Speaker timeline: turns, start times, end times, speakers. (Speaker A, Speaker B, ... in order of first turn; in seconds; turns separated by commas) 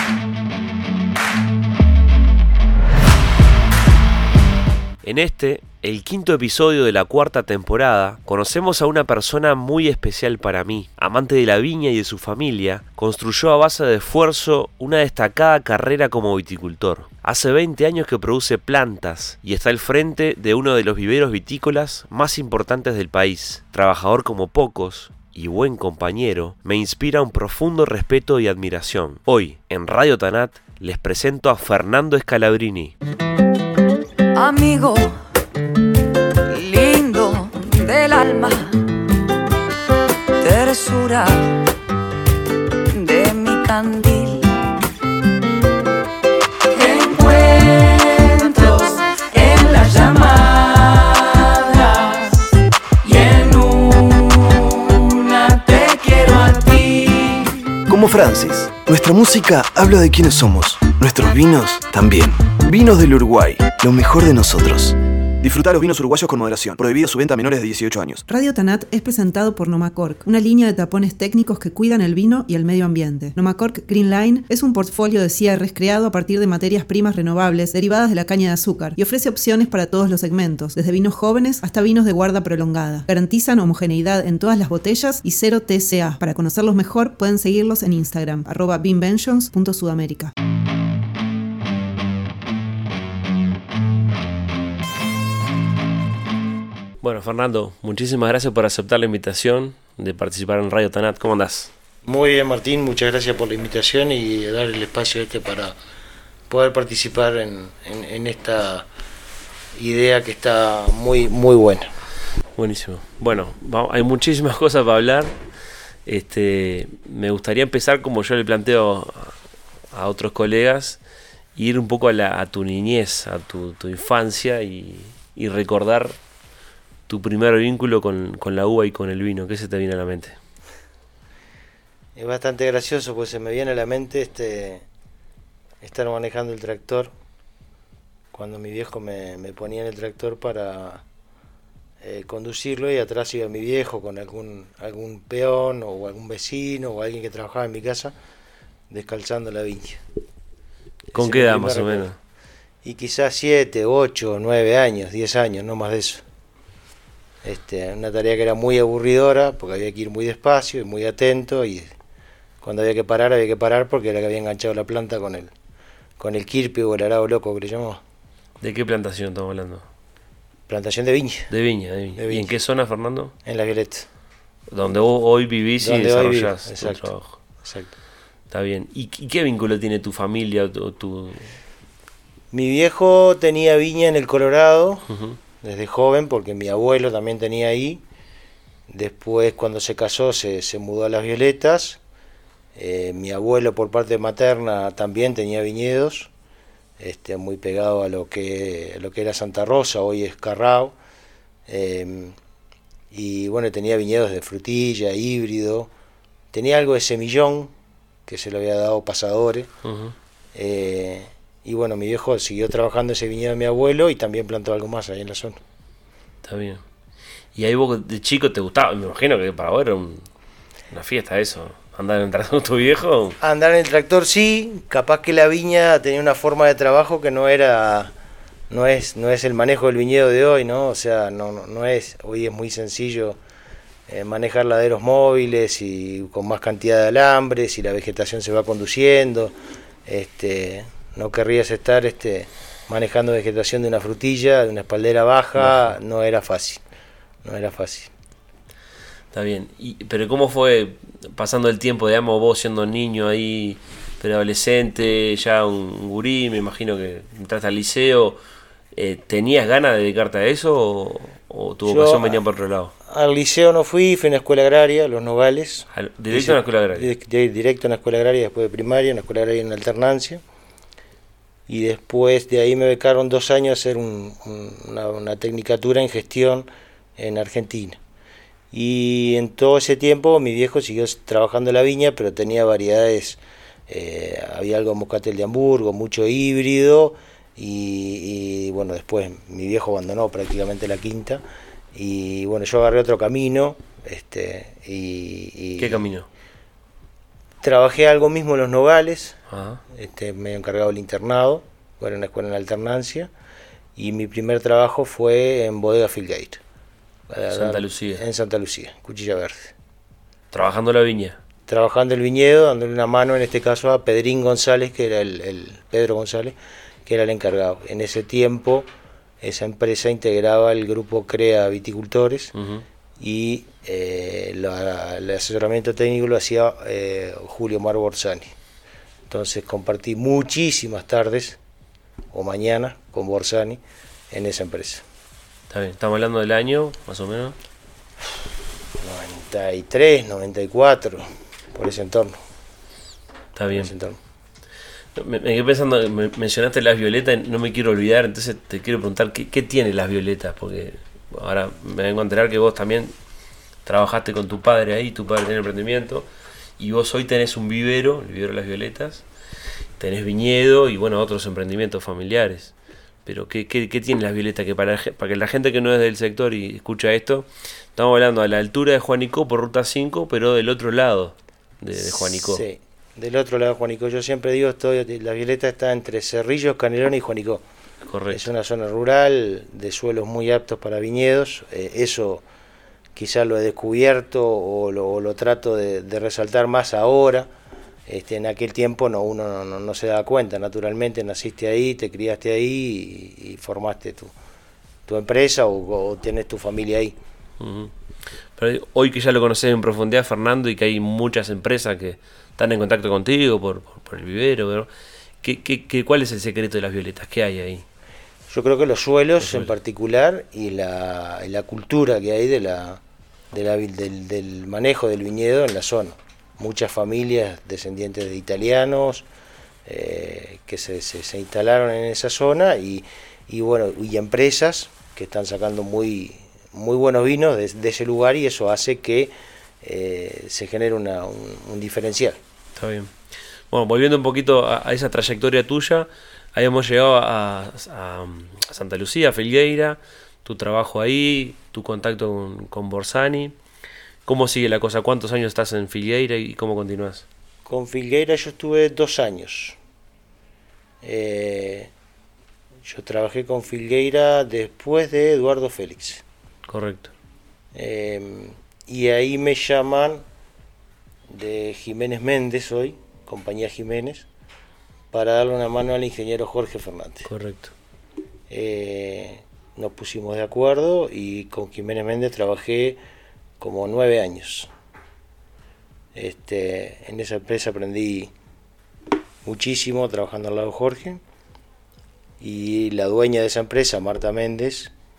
Speaker A: 5.0-32.9, Speaker B: 34.4-35.2, Speaker B: 36.5-38.9, Speaker B: 40.4-41.6, Speaker B: 42.9-44.5, Speaker B: 46.7-52.5, Speaker B: 53.0-57.6, Speaker C: 57.9-68.2, Speaker D: 68.3-90.3, Speaker A: 97.0-101.7, Speaker E: 102.0-105.8, Speaker E: 106.5-108.9, Speaker E: 109.8-111.9, Speaker A: 112.6-115.3, Speaker A: 116.1-119.3, Speaker A: 119.9-121.0, Speaker A: 121.5-126.2, Speaker A: 127.1-130.4, Speaker E: 132.2-134.8, Speaker E: 135.8-137.1, Speaker E: 138.3-141.0, Speaker E: 142.0-148.1, Speaker E: 148.9-150.0, Speaker E: 151.1-152.1, Speaker A: 151.2-152.2, Speaker E: 152.8-156.2, Speaker E: 157.4-161.9, Speaker E: 162.6-165.5, Speaker E: 166.2-168.0, Speaker A: 168.6-169.8, Speaker E: 170.7-171.5, Speaker A: 171.5-173.3, Speaker E: 172.2-172.6, Speaker E: 173.4-174.1, Speaker A: 174.7-177.4, Speaker E: 175.8-177.1, Speaker E: 177.6-177.9, Speaker A: 178.5-181.5, Speaker E: 182.5-185.1, Speaker A: 185.1-185.4, Speaker E: 185.6-188.0, Speaker E: 188.9-192.0, Speaker E: 192.8-196.3, Speaker E: 197.0-200.9, Speaker E: 201.7-202.4, Speaker E: 203.1-205.9, Speaker E: 206.5-207.7, Speaker E: 208.3-209.7, Speaker A: 209.8-210.1, Speaker E: 210.6-215.6, Speaker A: 216.4-216.8, Speaker A: 217.6-220.3, Speaker A: 220.9-223.4, Speaker E: 223.4-228.1, Speaker E: 228.7-233.4, Speaker E: 234.1-239.5, Speaker E: 240.1-246.8, Speaker A: 245.6-245.9, Speaker E: 247.4-248.1, Speaker A: 249.3-258.4, Speaker A: 258.9-262.9, Speaker E: 261.9-262.4, Speaker E: 263.1-270.4, Speaker A: 265.9-267.1, Speaker E: 271.7-278.0, Speaker E: 278.7-291.4, Speaker E: 291.9-296.0, Speaker A: 295.8-296.3, Speaker E: 297.6-299.4, Speaker A: 299.5-299.8, Speaker E: 299.9-303.3, Speaker E: 304.0-306.6, Speaker E: 307.3-309.7, Speaker A: 307.5-308.2, Speaker A: 310.5-311.4, Speaker E: 311.7-318.9, Speaker E: 319.4-322.5, Speaker A: 322.6-322.8, Speaker E: 323.2-328.5, Speaker E: 329.3-331.6, Speaker E: 332.3-333.8, Speaker E: 334.3-335.0, Speaker A: 335.7-337.6, Speaker E: 339.0-342.4, Speaker A: 343.6-343.9, Speaker E: 343.7-344.2, Speaker A: 345.1-353.1, Speaker A: 353.9-356.3, Speaker A: 356.8-359.3, Speaker A: 360.0-362.7, Speaker A: 363.2-372.6, Speaker E: 372.0-377.6, Speaker A: 378.1-378.5, Speaker E: 378.3-382.4, Speaker E: 383.1-387.5, Speaker E: 388.1-394.3, Speaker E: 395.1-397.2, Speaker A: 397.6-397.9, Speaker A: 398.6-404.9, Speaker A: 405.4-407.9, Speaker E: 408.5-413.0, Speaker A: 409.4-409.7, Speaker E: 413.5-419.3, Speaker E: 419.9-432.4, Speaker A: 432.8-433.1, Speaker A: 433.7-443.6, Speaker A: 444.3-447.2, Speaker E: 447.6-449.8, Speaker E: 451.0-451.9, Speaker E: 452.9-456.2, Speaker A: 456.7-457.1, Speaker E: 457.7-460.2, Speaker E: 461.3-464.3, Speaker E: 465.1-467.3, Speaker A: 467.3-467.7, Speaker E: 468.5-473.0, Speaker E: 473.6-474.7, Speaker E: 476.1-478.3, Speaker E: 479.4-481.2, Speaker E: 482.4-484.9